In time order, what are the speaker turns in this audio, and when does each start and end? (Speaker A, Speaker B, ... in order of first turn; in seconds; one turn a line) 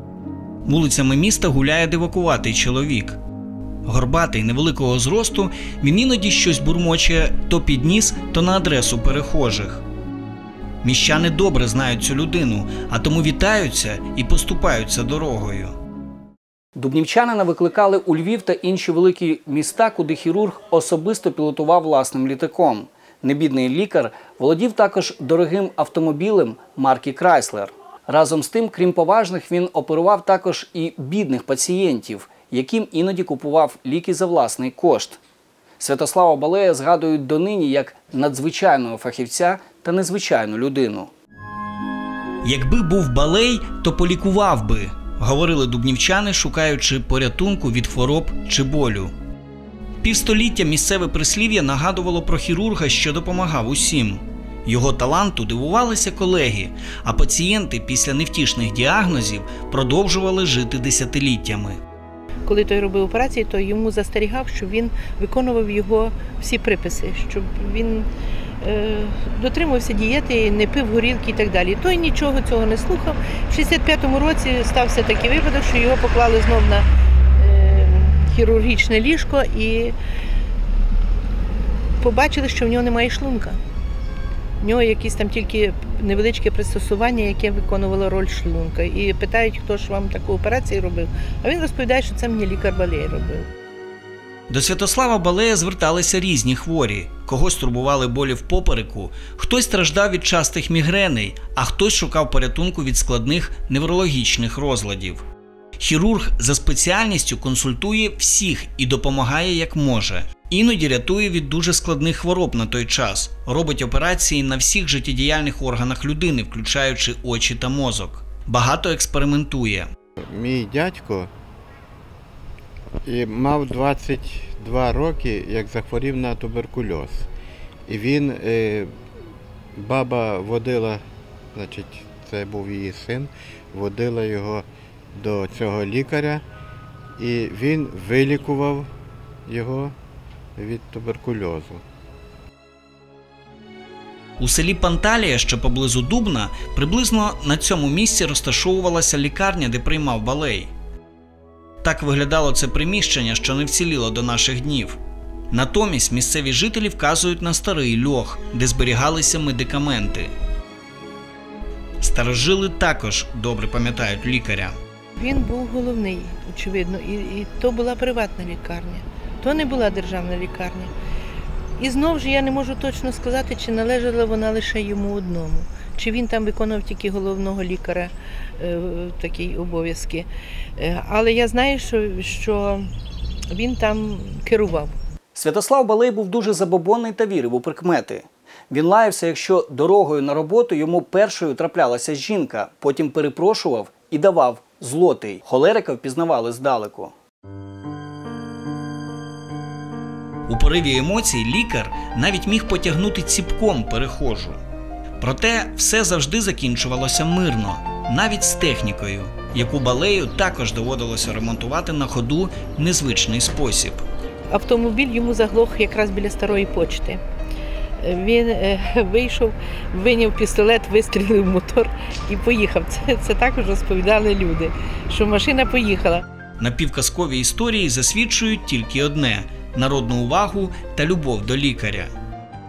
Speaker A: 0.7-3.2
Speaker A: 3.9-9.8
Speaker A: 10.8-15.8
Speaker A: 16.8-35.2
Speaker A: 35.8-41.1
Speaker A: 42.4-49.1
Speaker A: 50.0-61.8
Speaker B: 62.5-68.1
Speaker B: 68.6-76.8
Speaker B: 77.4-80.0
Speaker B: 82.0-83.6
Speaker B: 84.6-93.5
Speaker A: 94.5-105.2
Speaker A: 105.8-119.9
Speaker C: 120.2-121.3
Speaker C: 123.1-127.3
Speaker C: 127.9-128.9
Speaker C: 129.8-131.0
Speaker C: 131.6-136.4
Speaker C: 137.2-138.9
Speaker C: 139.5-139.9
Speaker C: 140.6-141.8
Speaker A: 144.4-150.7
Speaker A: 151.8-155.0
Speaker A: 155.5-160.3
Speaker A: 162.0-164.8
Speaker B: 165.2-170.9
Speaker B: 171.8-182.9
Speaker B: 183.5-184.9
Speaker A: 185.3-197.1
Speaker A: 200.5-204.6
Speaker A: 205.2-214.1
Speaker B: 214.5-217.2
Speaker B: 218.0-226.2
Speaker A: 226.6-232.1